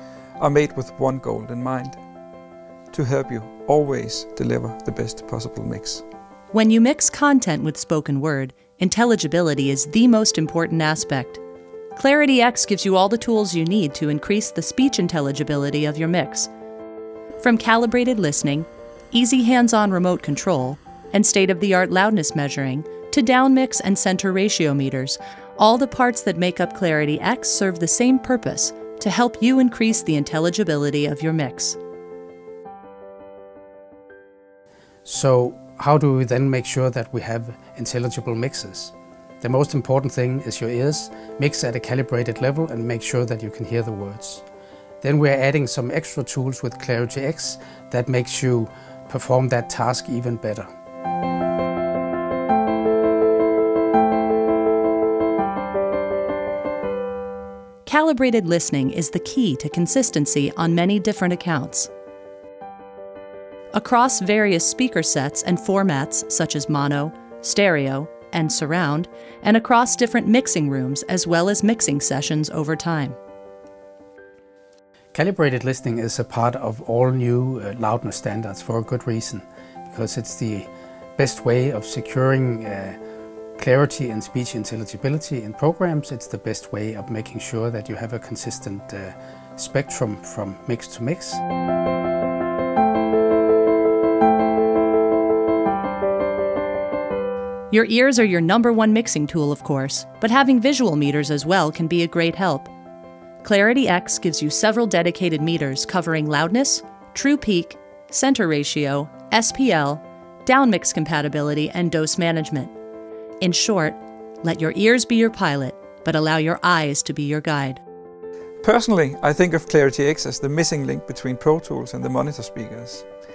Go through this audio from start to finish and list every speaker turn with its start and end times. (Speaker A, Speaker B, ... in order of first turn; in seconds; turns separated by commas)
Speaker A: 0.4-2.0, Speaker A: 2.9-6.0, Speaker B: 6.5-11.4, Speaker B: 11.9-16.5, Speaker B: 17.4-31.8, Speaker C: 35.0-44.4, Speaker C: 45.0-50.7, Speaker B: 57.9-61.9, Speaker B: 63.7-73.2, Speaker C: 75.1-83.0, Speaker C: 83.6-91.4, Speaker B: 97.7-102.7, Speaker B: 103.4-112.7, Speaker B: 113.4-117.8, Speaker A: 118.6-123.1